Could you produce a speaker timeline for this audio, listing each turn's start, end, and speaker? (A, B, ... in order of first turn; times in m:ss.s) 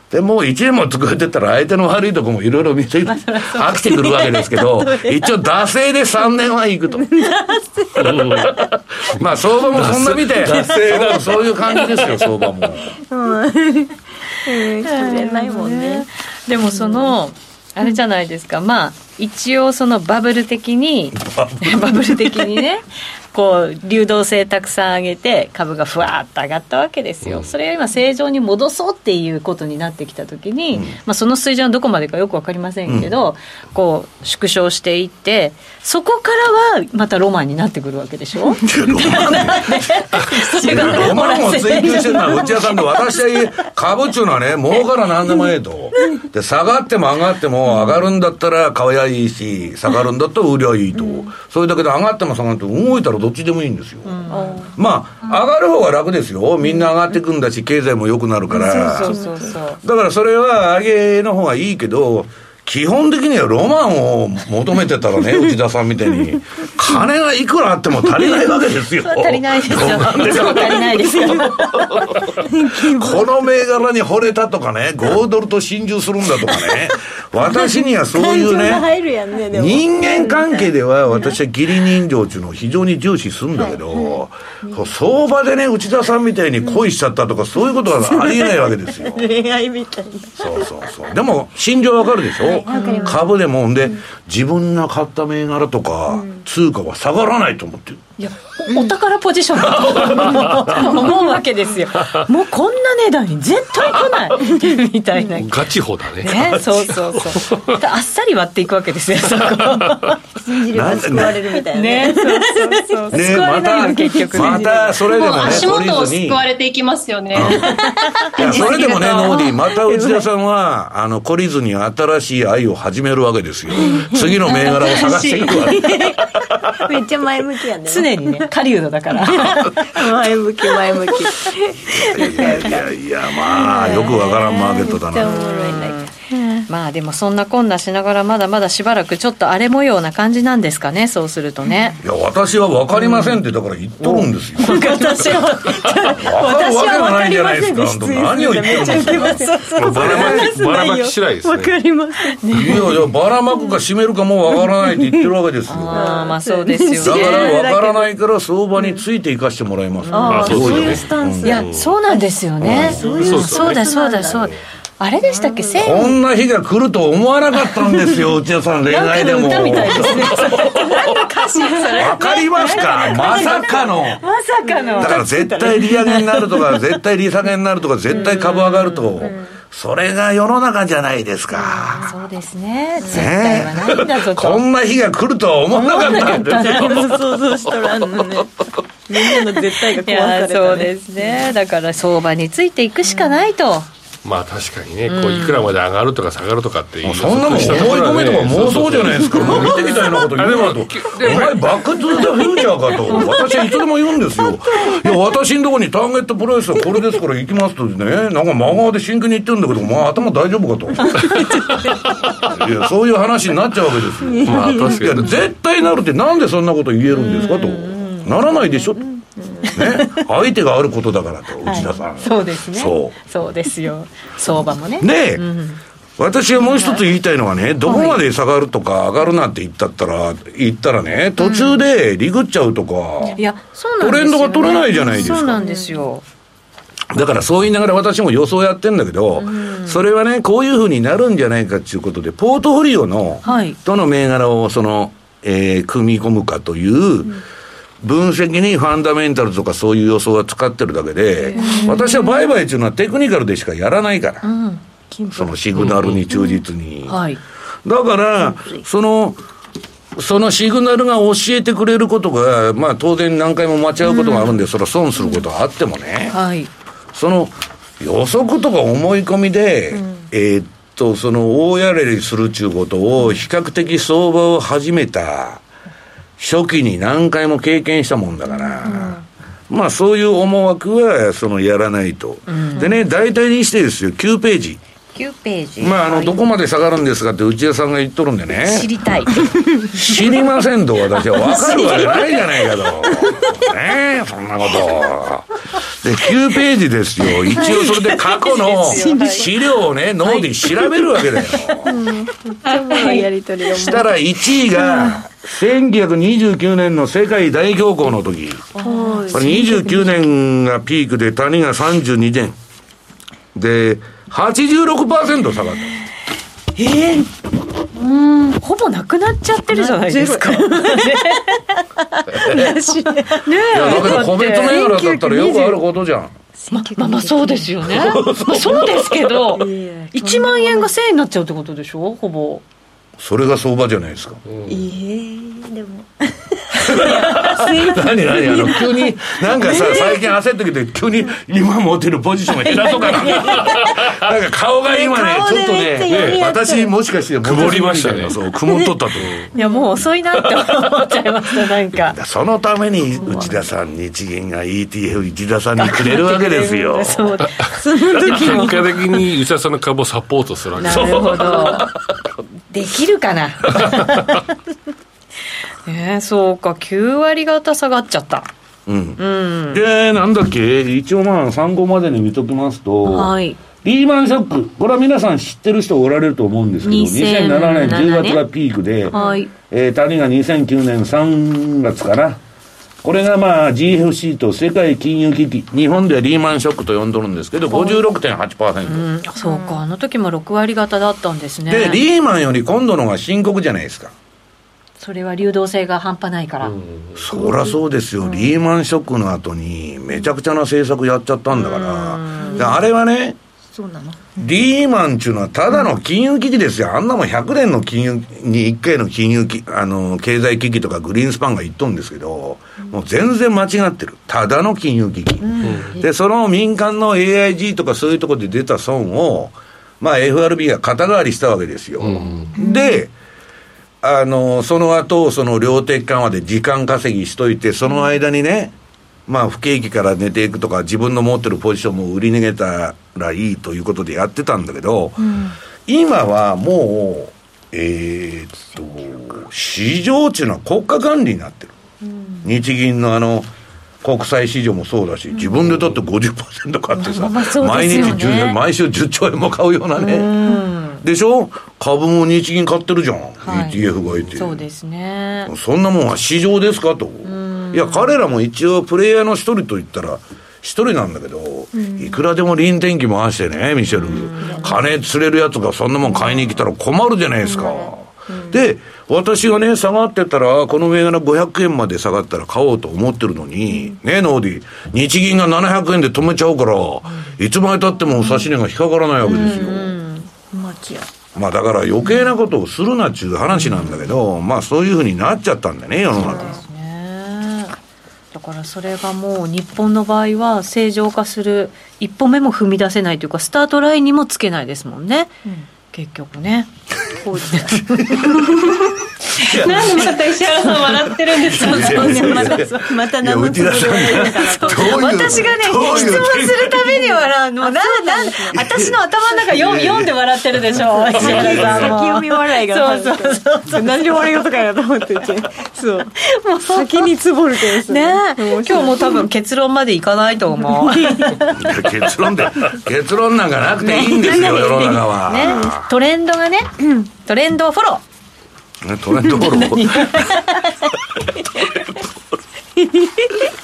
0:00.1-0:07.1 A
0:03.1-0:04.4 B
0:04.8-0:05.2 C
0:06.9-0:08.7 C
0:08.0-0:12.3 D
0:08.1-0:08.4 A
0:09.0-0:13.0 A
0:10.6-0:11.1 C
0:13.1-0:16.1 C
0:14.8-0:42.6 B
0:21.2-0:22.4 A
0:27.2-0:27.5 D
0:32.9-0:33.1 A
0:38.6-0:54.2 A
0:54.0-0:54.7 B
0:54.3-0:54.7 C
0:54.8-0:59.2 A
0:58.5-0:59.5 C
0:58.5-0:59.8 B
0:59.8-1:12.2 A
1:09.0-1:11.9 B
1:11.0-1:11.6 C
1:12.4-1:13.3 C
1:12.8-1:18.9 A
1:17.5-1:21.3 C
1:19.5-1:29.3 A
1:23.6-1:24.8 C
1:28.0-1:31.0 C
1:30.4-1:38.0 A
1:32.4-1:33.3 C
1:32.7-1:33.2 B
1:36.1-1:36.4 C
1:38.2-1:45.7 B
1:40.2-1:40.7 D
1:45.4-1:47.8 D
1:46.2-1:50.2 B
1:49.4-1:50.2 D
1:50.4-1:55.7 C
1:50.7-1:51.4 A
1:51.7-1:55.0 B
1:53.1-1:56.5 A
1:55.1-1:57.7 E
1:57.3-1:57.8 A
1:57.7-1:59.0 B
1:57.7-2:00.3 C
1:58.3-2:07.0 A
1:58.4-1:59.2 E
2:03.7-2:08.4 C
2:07.9-2:10.0 B
2:09.3-2:12.8 C
2:11.9-2:15.4 A
2:13.4-2:16.7 C
2:13.7-2:16.1 B
2:16.7-2:22.0 B
2:22.0-2:25.2 A
2:23.0-2:23.4 B
2:24.6-2:26.2 B
2:24.6-2:33.0 C
2:26.1-2:30.5 A
2:29.8-2:31.8 D
2:32.3-2:33.0 B
2:32.5-2:36.1 A
2:34.6-2:35.3 C
2:35.7-2:37.6 B
2:35.9-2:38.1 C
2:37.0-2:41.7 A
2:40.0-2:40.6 B
2:40.1-2:41.7 C
2:40.3-2:41.1 D
2:41.4-2:46.2 B
2:41.6-2:41.9 D
2:42.6-2:43.0 A
2:42.6-2:43.9 D
2:42.8-2:44.5 C
2:45.3-2:46.0 C
2:45.8-2:50.8 A
2:48.9-2:55.8 B
2:51.4-2:53.8 C
2:51.9-2:54.2 A
2:54.6-2:56.8 C
2:55.0-3:02.1 A
2:58.1-2:59.3 B
2:58.1-2:58.4 C
2:59.2-2:59.5 C
3:01.6-3:02.1 C
3:02.0-3:04.6 B
3:03.1-3:07.2 A
3:05.7-3:11.5 C
3:05.9-3:07.0 B
3:10.0-3:13.9 B
3:13.1-3:13.4 C
3:14.2-3:21.8 D
3:15.1-3:15.7 B
3:17.0-3:31.5 A
3:19.4-3:19.8 B
3:23.1-3:23.6 C
3:31.3-3:32.0 C
3:32.4-3:39.0 A
3:34.2-3:35.2 C
3:34.4-3:35.4 D
3:37.1-3:38.9 B
3:39.4-3:40.1 C
3:39.6-3:40.0 B
3:39.8-3:43.2 A
3:41.7-3:45.8 B
3:45.0-3:45.4 A
3:46.2-3:53.4 A
3:46.6-3:47.0 B
3:47.8-3:48.2 B
3:51.4-3:51.8 B
3:53.4-3:56.2 B
3:54.0-3:55.6 A
3:55.6-3:55.9 C
3:57.1-4:07.4 A
3:59.4-4:00.0 B
4:03.4-4:03.8 B
4:08.0-4:14.5 A
4:11.4-4:12.4 B
4:11.6-4:12.2 C
4:14.4-4:14.8 B
4:15.3-4:17.2 A
4:15.8-4:16.2 D
4:17.1-4:17.4 B
4:17.8-4:19.4 A
4:20.2-4:26.4 A
4:24.1-4:24.6 B
4:26.3-4:26.7 B
4:27.1-4:35.6 A
4:36.4-4:39.2 A
4:38.8-4:39.2 C
4:39.7-4:44.8 A
4:42.5-4:43.0 B
4:45.2-4:46.4 B
4:45.8-4:48.9 A
4:48.6-4:49.4 B
4:49.8-5:01.9 A
4:51.3-4:52.4 B
4:51.6-4:52.0 C
4:57.4-4:58.2 C
4:57.6-4:59.5 B
4:58.8-4:59.5 C
5:00.2-5:00.6 B
5:01.8-5:05.2 C
5:02.9-5:03.2 B
5:03.8-5:08.7 A
5:08.8-5:10.1 C
5:08.8-5:09.8 B
5:09.3-5:12.6 A
5:13.5-5:15.9 A
5:16.8-5:17.3 B
5:18.2-5:21.7 B
5:19.7-5:21.4 C
5:22.2-5:25.8 C
5:22.3-5:22.8 A
5:22.6-5:25.0 B
5:23.7-5:26.3 A
5:26.6-5:27.8 C
5:26.7-5:32.6 B
5:27.8-5:29.4 A
5:29.5-5:30.9 C
5:33.2-5:34.4 A
5:34.5-5:34.8 D
5:34.7-5:40.2 C
5:36.8-5:49.5 A
5:42.6-5:43.7 B
5:42.7-5:43.8 C
5:44.9-5:47.0 C
5:46.1-5:46.4 D
5:47.4-5:48.4 D
5:49.2-5:49.5 D
5:49.6-5:49.8 C
5:49.6-5:52.2 B
5:52.1-5:57.4 A
5:53.2-5:53.6 B
5:55.8-5:59.2 B
5:57.8-5:59.0 C
5:58.2-6:01.9 D
6:00.8-6:01.9 B
6:02.7-6:04.5 B
6:05.9-6:08.5 B
6:08.9-6:22.4 A
6:09.2-6:09.8 B
6:13.0-6:13.6 B
6:16.8-6:18.4 B
6:19.1-6:19.5 B
6:19.1-6:19.4 C
6:23.0-6:29.1 A
6:27.7-6:28.0 B
6:28.8-6:32.0 B
6:29.4-6:29.8 C
6:31.7-6:34.1 A
6:35.0-6:36.8 B
6:36.6-6:37.2 D
6:37.2-6:43.4 A
6:37.4-6:37.7 C
6:41.5-6:42.7 B
6:42.4-6:42.8 C
6:43.7-6:44.4 C
6:44.4-7:03.1 A
6:55.4-6:56.0 B
6:55.6-6:55.9 D
7:02.0-7:02.6 D
7:02.6-7:02.8 C
7:04.0-7:08.7 A
7:09.3-7:21.8 A
7:22.0-7:22.5 B
7:22.4-7:23.5 A
7:24.0-7:30.5 A
7:26.9-7:28.6 B
7:30.0-7:31.0 B
7:31.0-7:34.6 A
7:33.4-7:33.8 B
7:34.4-7:35.5 B
7:35.5-8:00.0 A
7:37.2-7:38.2 B
7:41.8-7:42.1 C
7:43.9-7:44.8 B
7:44.4-7:44.7 C
7:47.6-7:48.6 C
7:59.2-8:00.3 B
8:00.5-8:01.1 C
8:01.4-8:06.6 A
8:03.5-8:04.1 B
8:06.2-8:06.6 C
8:06.3-8:07.8 B
8:08.3-8:15.3 B
8:15.9-8:18.4 B
8:17.6-8:18.7 A
8:19.3-8:20.2 A
8:19.4-8:22.4 E
8:20.9-8:27.0 A
8:21.5-8:28.6 C
8:24.2-8:33.9 B
8:28.5-8:30.2 A
8:30.9-8:39.3 C
8:31.1-8:32.0 A
8:36.4-8:37.1 B
8:37.9-8:41.6 B
8:40.8-8:41.5 C
8:41.5-8:45.9 A
8:43.8-8:45.7 C
8:44.3-8:48.0 B
8:48.8-8:50.4 A
8:49.4-8:50.3 C
8:49.6-8:50.3 B